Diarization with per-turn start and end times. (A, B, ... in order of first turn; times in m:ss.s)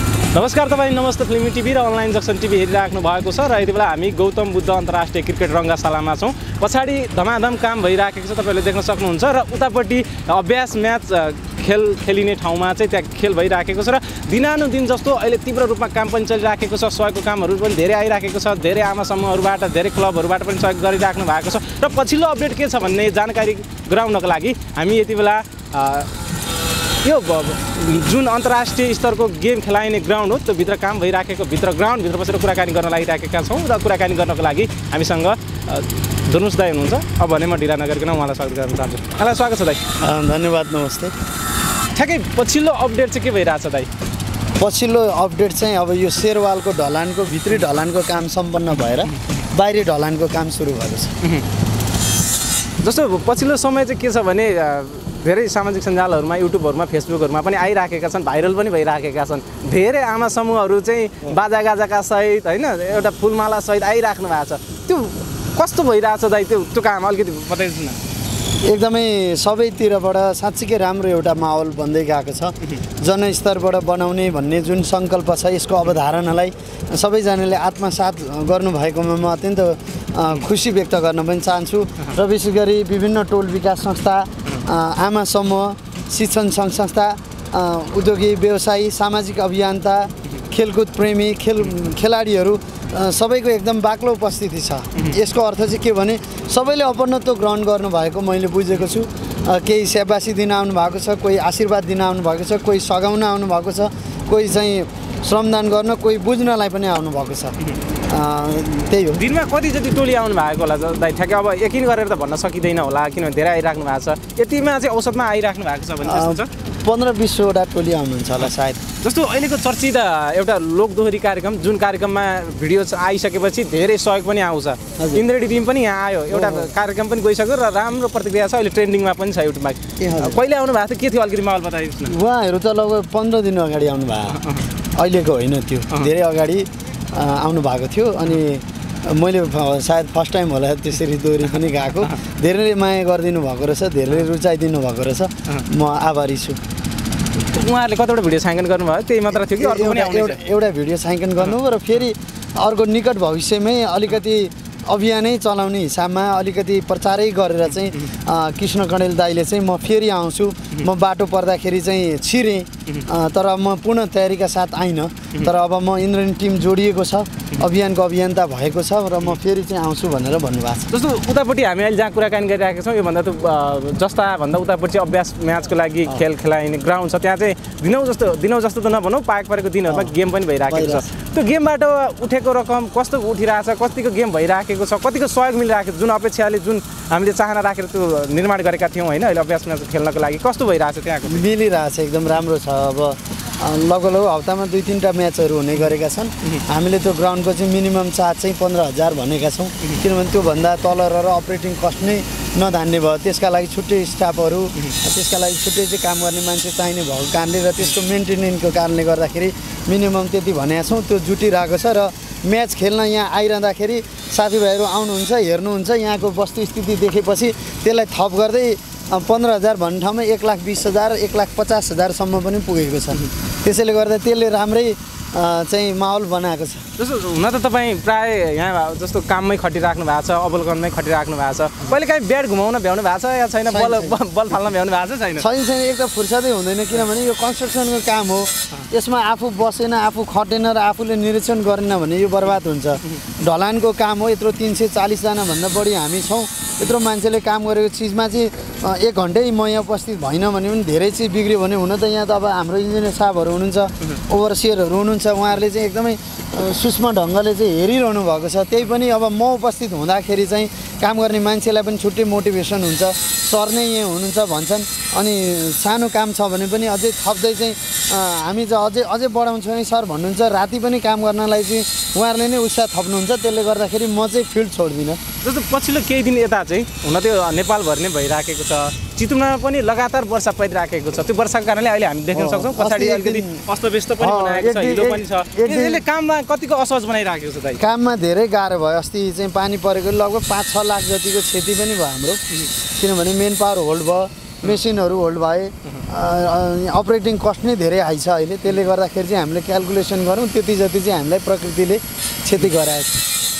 0:00.3-0:26.1 A
0:27.0-0:40.0 A
0:40.0-0:41.1 B
0:41.9-0:43.9 A
0:44.6-0:51.1 B
0:52.8-1:08.0 A
1:08.6-1:47.5 B
1:48.1-1:49.2 B
1:49.2-1:56.5 A
1:56.0-1:58.8 B
1:59.0-2:12.2 A
2:06.3-2:06.7 B
2:10.0-2:10.4 B
2:12.1-2:26.6 B
2:27.4-2:30.4 A
2:29.4-2:50.9 B
2:50.9-3:11.5 A
2:59.9-3:00.1 B
3:00.7-3:01.1 B
3:11.2-3:46.8 B
3:47.0-3:55.5 A
3:53.7-3:54.2 B
3:55.4-4:35.2 B
4:35.4-4:47.8 A
4:42.3-4:43.6 B
4:44.2-4:46.0 B
4:47.8-5:03.2 B